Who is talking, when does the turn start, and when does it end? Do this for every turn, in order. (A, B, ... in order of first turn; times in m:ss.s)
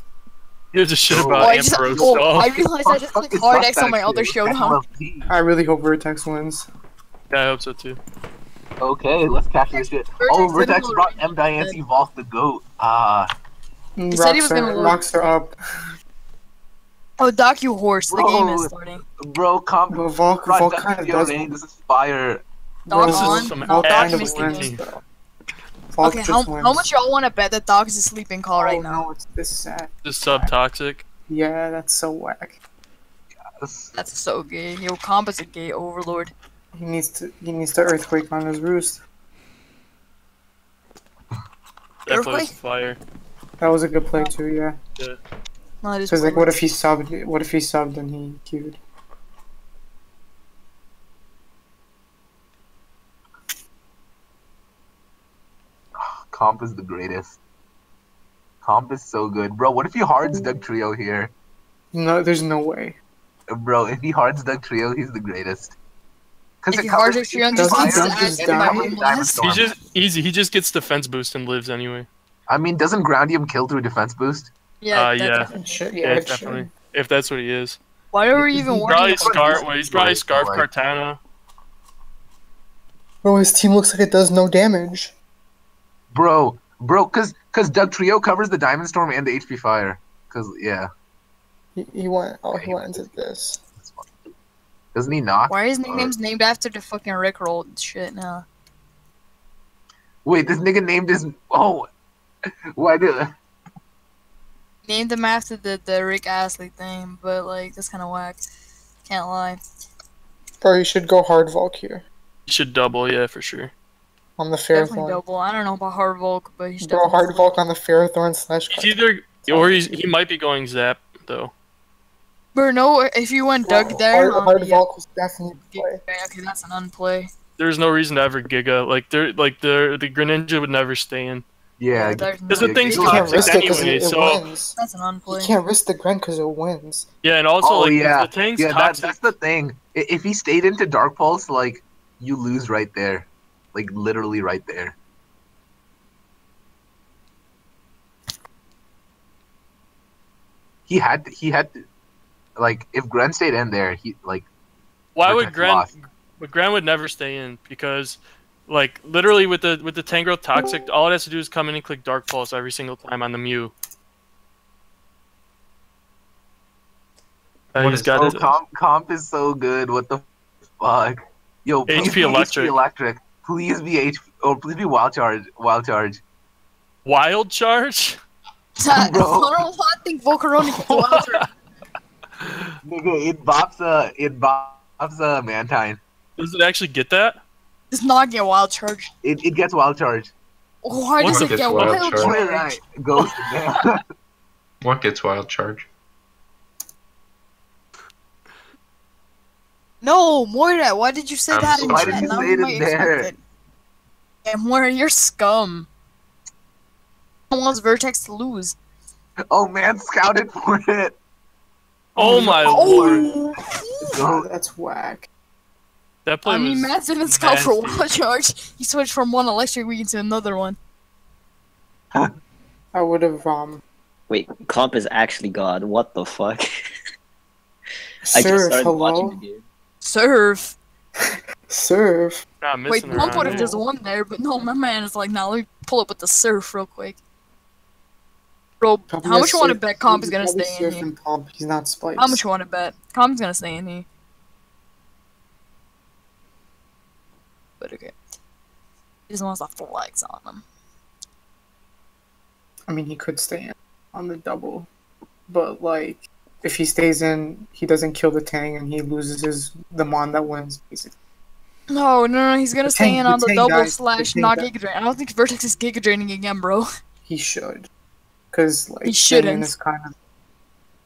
0:00.7-0:02.6 A
0:01.1-0:05.3 B
0:01.3-0:04.8 C
0:05.2-0:06.7 D
0:07.3-0:08.0 A
0:08.8-0:13.3 B
0:09.7-0:11.8 C
0:14.0-0:15.5 D
0:14.1-0:15.4 C
0:17.2-0:19.0 C
0:18.1-0:22.4 B
0:19.9-0:21.5 D
0:22.9-0:25.0 D
0:22.9-0:24.8 C
0:23.0-0:24.8 A
0:25.9-0:26.9 D
0:26.0-0:29.0 C
0:28.6-0:30.5 D
0:30.0-0:31.0 A
0:31.3-0:32.6 D
0:33.6-0:33.9 B
0:33.9-0:36.3 C
0:36.7-0:39.0 D
0:42.0-0:43.0 A
0:42.1-0:42.5 C
0:43.6-0:44.8 D
0:45.8-0:46.6 C
0:46.1-0:48.8 D
0:56.0-0:57.4 B
0:58.6-1:01.3 B
1:00.3-1:00.6 D
1:01.9-1:03.0 D
1:03.5-1:05.7 B
1:06.6-1:09.8 B
1:06.7-1:09.6 C
1:07.5-1:09.0 D
1:09.4-1:12.1 A
1:12.5-1:14.5 B
1:14.8-1:15.5 C
1:14.9-1:17.8 A
1:15.5-1:16.7 D
1:18.1-1:19.6 C
1:18.3-1:18.9 D
1:18.9-1:21.2 A
1:19.0-1:20.6 B
1:23.2-1:25.1 D
1:26.1-1:30.9 B
1:31.8-1:33.6 D
1:32.5-1:33.2 B
1:33.8-1:34.1 B
1:34.9-1:36.1 B
1:35.5-1:38.4 C
1:40.2-1:41.8 B
1:42.8-1:43.3 B
1:44.8-1:48.4 C
1:49.0-1:49.6 C
1:50.6-1:52.0 D
1:52.5-1:53.7 A
1:54.4-1:55.2 D
1:54.7-1:57.5 C
1:56.8-2:00.0 D
1:58.7-2:01.5 A
2:02.5-2:04.8 C
2:03.6-2:06.0 D
2:05.7-2:07.3 C
2:07.6-2:11.4 A
2:11.8-2:13.8 B
2:11.9-2:13.9 C
2:12.5-2:14.4 A
2:13.0-2:14.8 D
2:14.8-2:15.6 C
2:15.3-2:17.0 D
2:17.2-2:19.2 A
2:17.6-2:25.0 B
2:30.9-2:31.8 B
2:32.6-2:34.5 B
2:35.1-2:43.7 A
2:35.2-2:35.9 B
2:47.7-2:48.5 A
2:47.8-2:50.2 B
2:50.8-2:56.2 B
2:51.9-2:52.7 A
2:52.0-2:52.4 C
2:57.0-2:58.2 A
2:58.8-3:01.4 C
2:58.9-2:59.5 B
3:00.6-3:01.5 A
3:02.4-3:02.7 A
3:02.8-3:06.0 B
3:06.4-3:07.4 A
3:07.9-3:09.1 C
3:09.2-3:10.3 B
3:10.8-3:12.8 C
3:11.2-3:12.4 E
3:11.2-3:12.0 A
3:12.1-3:14.0 B
3:14.8-3:15.9 E
3:20.0-3:23.4 C
3:21.5-3:22.5 E
3:21.7-3:23.3 B
3:24.4-3:25.9 C
3:27.5-3:28.8 C
3:29.5-3:31.2 B
3:32.2-3:33.3 A
3:32.2-3:34.2 C
3:32.2-3:33.4 D
3:34.1-3:34.5 B
3:34.2-3:35.3 D
3:36.2-3:38.0 A
3:36.4-3:40.8 C
3:42.9-3:43.8 D
3:44.3-3:46.6 F
3:48.3-3:49.6 F
3:48.3-3:49.4 D
3:50.0-3:50.8 C
3:51.2-3:52.4 D
3:52.6-3:53.7 A
3:52.9-3:57.2 C
3:53.1-3:53.8 D
3:58.8-4:01.1 C
3:59.1-4:02.4 D
4:02.2-4:04.0 C
4:07.8-4:08.1 C
4:09.3-4:10.6 C
4:12.9-4:14.9 D
4:15.5-4:21.1 D
4:21.9-4:26.9 C
4:22.8-4:24.7 D
4:27.2-4:27.9 D
4:28.5-4:30.1 D
4:29.0-4:29.7 C